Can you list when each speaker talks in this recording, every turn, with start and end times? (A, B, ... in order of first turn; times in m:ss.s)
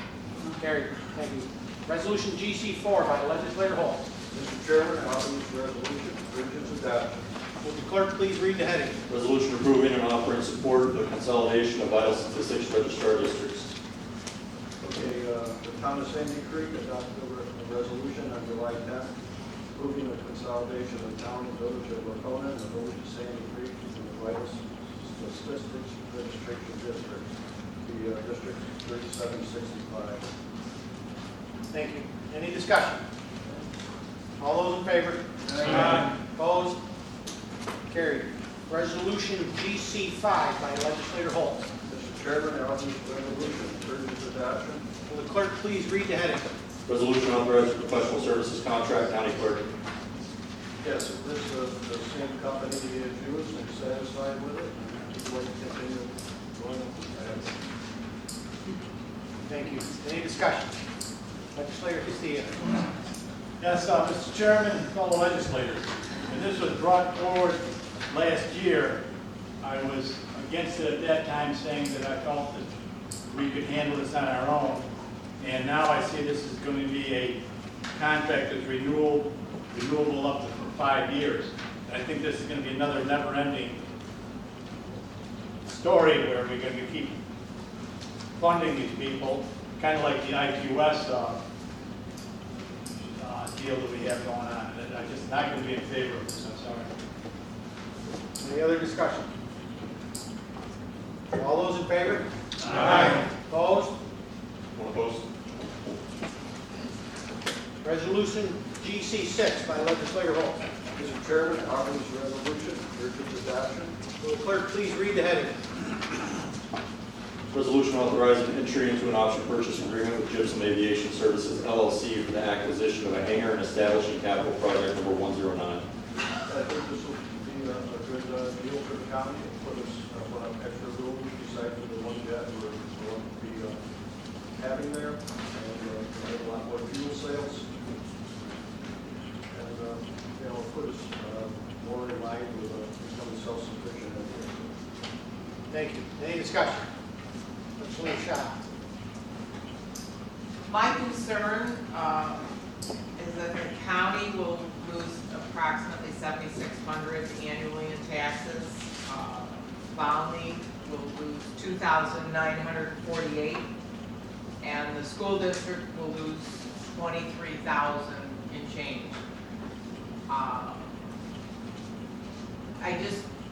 0:00.5-0:04.0 A
0:04.3-0:07.2 B
0:07.6-0:09.0 A
0:09.1-0:13.7 C
0:14.8-0:19.1 B
0:19.7-0:30.2 B
0:31.7-0:33.0 A
0:34.4-0:36.8 A
0:35.6-0:35.8 B
0:35.6-0:36.1 D
0:37.9-0:41.7 A
0:41.9-0:44.8 B
0:45.1-0:46.5 A
0:46.9-0:49.7 C
0:50.8-0:57.6 B
0:59.5-1:00.7 A
1:01.5-1:02.6 A
1:03.6-1:09.0 D
1:09.6-1:12.7 D
1:13.3-1:14.9 D
1:15.4-1:17.4 D
1:18.0-1:23.8 D
1:25.6-1:27.2 D
1:28.4-1:31.4 D
1:33.1-1:36.9 D
1:38.4-1:39.3 A
1:41.3-1:42.3 A
1:42.7-1:43.2 D
1:42.8-1:43.0 C
1:42.8-1:43.9 A
1:44.8-1:45.2 C
1:47.8-1:50.6 A
1:51.0-1:54.0 B
1:54.2-1:55.6 A
1:57.5-2:05.8 C
2:06.4-2:13.8 B
2:14.6-2:17.7 B
2:19.5-2:24.7 B
2:25.7-2:26.9 A
2:27.8-2:28.5 A
2:30.7-2:32.5 E
2:33.2-2:43.7 E
2:44.6-2:49.2 E
2:50.3-2:50.9 E
2:52.8-2:53.2 E